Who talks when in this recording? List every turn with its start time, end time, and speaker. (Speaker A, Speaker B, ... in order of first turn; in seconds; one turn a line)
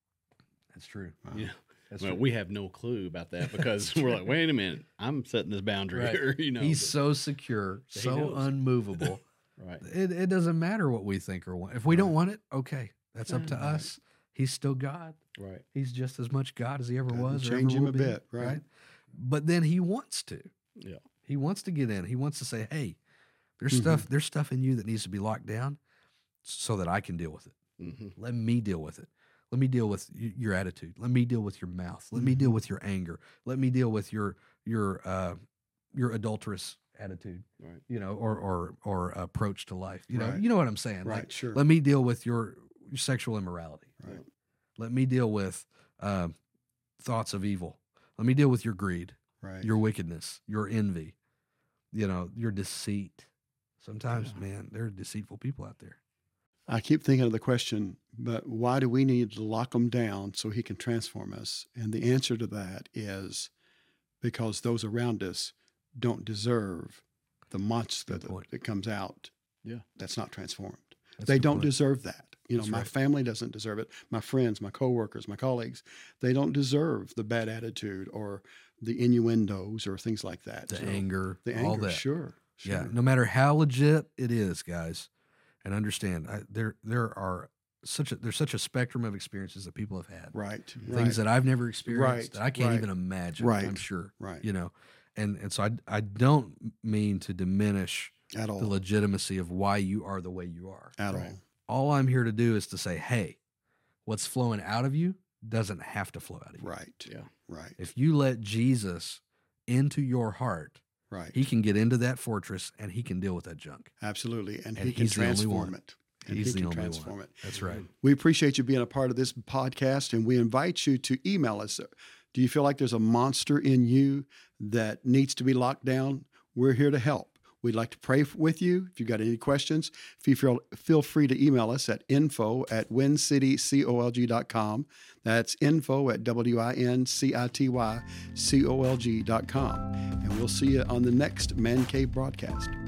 Speaker A: 0.7-1.3
Speaker B: 1.3-7.0
Speaker A: 1.9-2.2
Speaker A: 5.9-9.2
Speaker B: 7.9-9.8
Speaker A: 9.8-15.2
Speaker C: 11.9-12.2
Speaker C: 13.4-13.9
Speaker B: 15.4-15.6
Speaker A: 15.7-20.5
Speaker C: 17.1-18.6
Speaker A: 21.2-23.0
Speaker A: 23.6-25.8
Speaker C: 23.7-24.0
Speaker A: 26.4-27.6
Speaker B: 27.8-28.1
Speaker A: 28.1-35.4
Speaker C: 32.1-32.6
Speaker A: 35.9-44.0
Speaker C: 40.1-40.4
Speaker C: 41.0-41.6
Speaker A: 44.8-46.3
Speaker A: 47.0-51.1
Speaker C: 49.4-49.7
Speaker A: 51.9-53.3
Speaker A: 53.8-56.0
Speaker C: 56.7-63.5
Speaker C: 64.2-69.3
Speaker A: 68.1-68.5
Speaker C: 70.0-82.9
Speaker A: 71.2-71.7
Speaker A: 72.6-72.9
Speaker A: 80.7-82.0
Speaker A: 82.6-85.1
Speaker A: 85.6-90.3
Speaker C: 90.3-91.2
Speaker A: 90.9-103.4
Speaker C: 91.8-94.4
Speaker C: 98.3-98.8
Speaker C: 101.0-101.4
Speaker A: 104.0-106.7
Speaker C: 106.6-107.8
Speaker A: 107.8-110.8
Speaker C: 111.1-111.4
Speaker A: 111.3-113.9
Speaker C: 114.0-142.8
Speaker A: 114.8-115.7
Speaker A: 116.2-117.8